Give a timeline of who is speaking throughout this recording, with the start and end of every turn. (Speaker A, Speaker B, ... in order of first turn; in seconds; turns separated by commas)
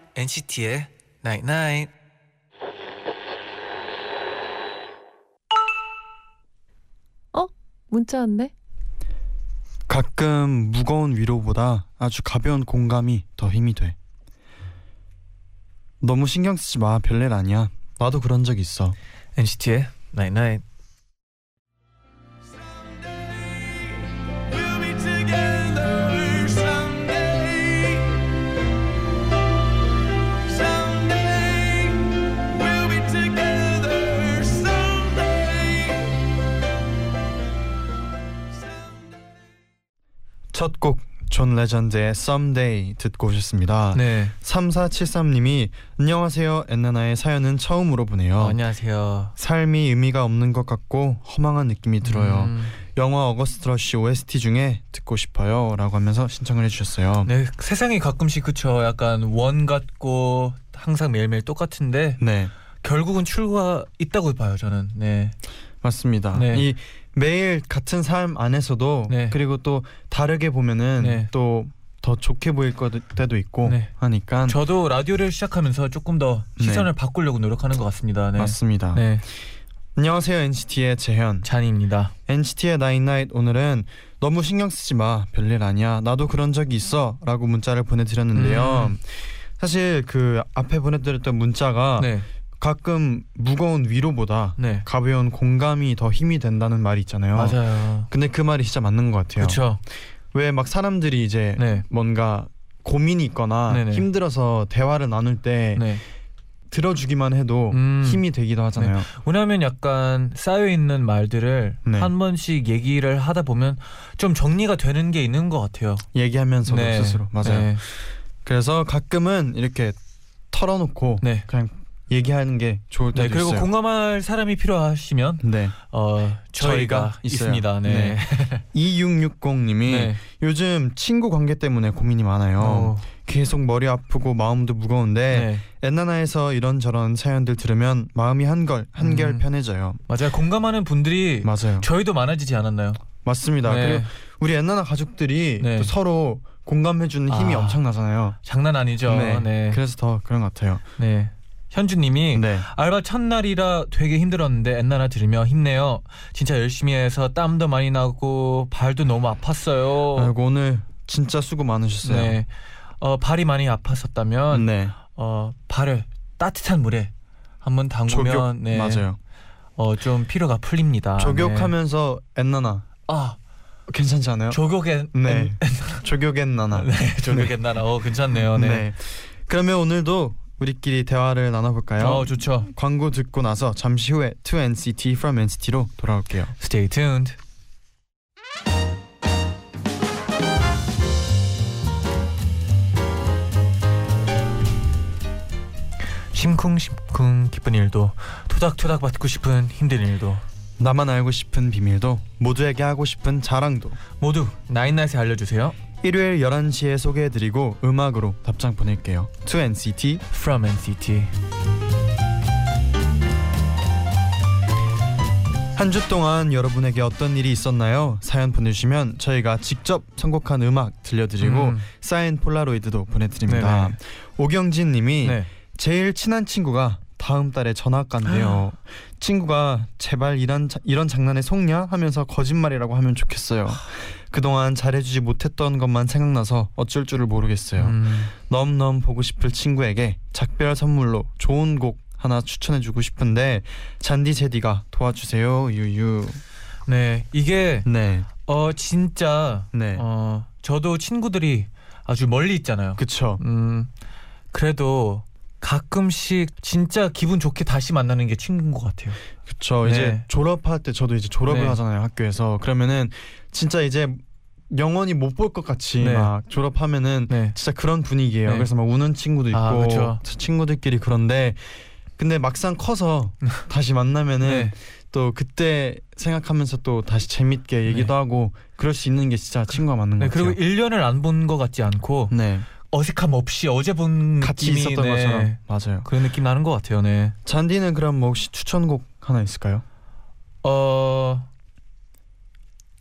Speaker A: 0.1-1.9, Speaker B: 7.3-8.5, Speaker C: 9.9-13.9, Speaker C: 16.0-19.0, Speaker A: 19.4-20.6, Speaker B: 22.7-28.2, Speaker B: 30.4-36.2, Speaker C: 40.5-48.6, Speaker A: 43.9-44.3, Speaker A: 48.4-49.3, Speaker C: 49.4-57.3, Speaker A: 52.0-52.8, Speaker A: 57.2-62.2, Speaker C: 62.2-62.5, Speaker A: 62.8-65.3, Speaker C: 65.8-74.6, Speaker A: 66.3-66.7, Speaker A: 69.1-69.4, Speaker A: 71.0-71.3, Speaker A: 73.6-73.9, Speaker A: 74.5-79.2, Speaker C: 76.6-76.9, Speaker C: 78.3-79.0, Speaker C: 80.0-81.5, Speaker A: 81.4-82.1, Speaker C: 82.3-97.6, Speaker A: 88.3-89.0, Speaker A: 92.0-92.3, Speaker A: 94.6-94.8, Speaker A: 97.3-98.1, Speaker C: 98.1-99.6, Speaker A: 99.4-99.8, Speaker C: 100.3-105.9, Speaker A: 101.5-101.8, Speaker A: 103.7-104.0, Speaker A: 105.7-106.0, Speaker C: 106.7-109.1, Speaker A: 107.7-108.2, Speaker A: 108.8-116.0, Speaker C: 111.8-112.1, Speaker C: 116.1-117.8, Speaker A: 116.7-117.8, Speaker C: 118.4-120.0, Speaker C: 120.5-123.7, Speaker A: 123.1-128.6, Speaker C: 125.4-125.7, Speaker C: 126.6-128.2, Speaker C: 128.7-140.0, Speaker A: 129.8-130.2, Speaker A: 132.6-133.1, Speaker A: 135.3-135.6, Speaker A: 139.0-139.4, Speaker A: 140.1-143.0, Speaker C: 141.4-141.9, Speaker C: 143.2-148.4, Speaker A: 143.6-144.1, Speaker A: 145.6-145.9, Speaker A: 147.3-147.8, Speaker A: 148.4-149.8, Speaker C: 149.0-150.8, Speaker A: 151.0-160.3, Speaker C: 152.3-152.7, Speaker C: 160.1-162.4, Speaker A: 162.0-169.0, Speaker C: 164.5-164.9, Speaker C: 168.1-169.2, Speaker A: 169.8-171.7, Speaker C: 171.2-172.9, Speaker A: 173.1-173.4, Speaker C: 173.9-174.6, Speaker A: 174.5-176.0, Speaker C: 175.1-177.5, Speaker A: 176.7-178.8, Speaker C: 178.5-186.5, Speaker A: 182.0-182.7, Speaker A: 186.6-187.4, Speaker A: 196.3-200.4, Speaker C: 200.8-204.0, Speaker A: 204.2-205.8, Speaker C: 206.0-210.2, Speaker A: 210.3-211.3, Speaker C: 215.7-246.4, Speaker A: 221.4-221.9, Speaker A: 223.5-223.9, Speaker A: 225.2-225.5, Speaker A: 228.3-228.5, Speaker A: 237.8-238.3, Speaker A: 246.9-247.9, Speaker C: 247.8-248.3, Speaker A: 248.4-253.9, Speaker C: 249.7-250.0, Speaker C: 253.0-253.4, Speaker A: 254.5-259.2, Speaker C: 259.5-280.6, Speaker A: 259.8-260.2, Speaker A: 261.4-261.8, Speaker A: 266.0-266.3, Speaker A: 267.3-267.6, Speaker A: 269.5-270.2, Speaker A: 274.4-274.7, Speaker A: 277.9-278.1, Speaker A: 280.2-287.4, Speaker C: 282.3-282.7, Speaker C: 284.4-286.1, Speaker C: 287.4-289.8, Speaker A: 290.6-291.5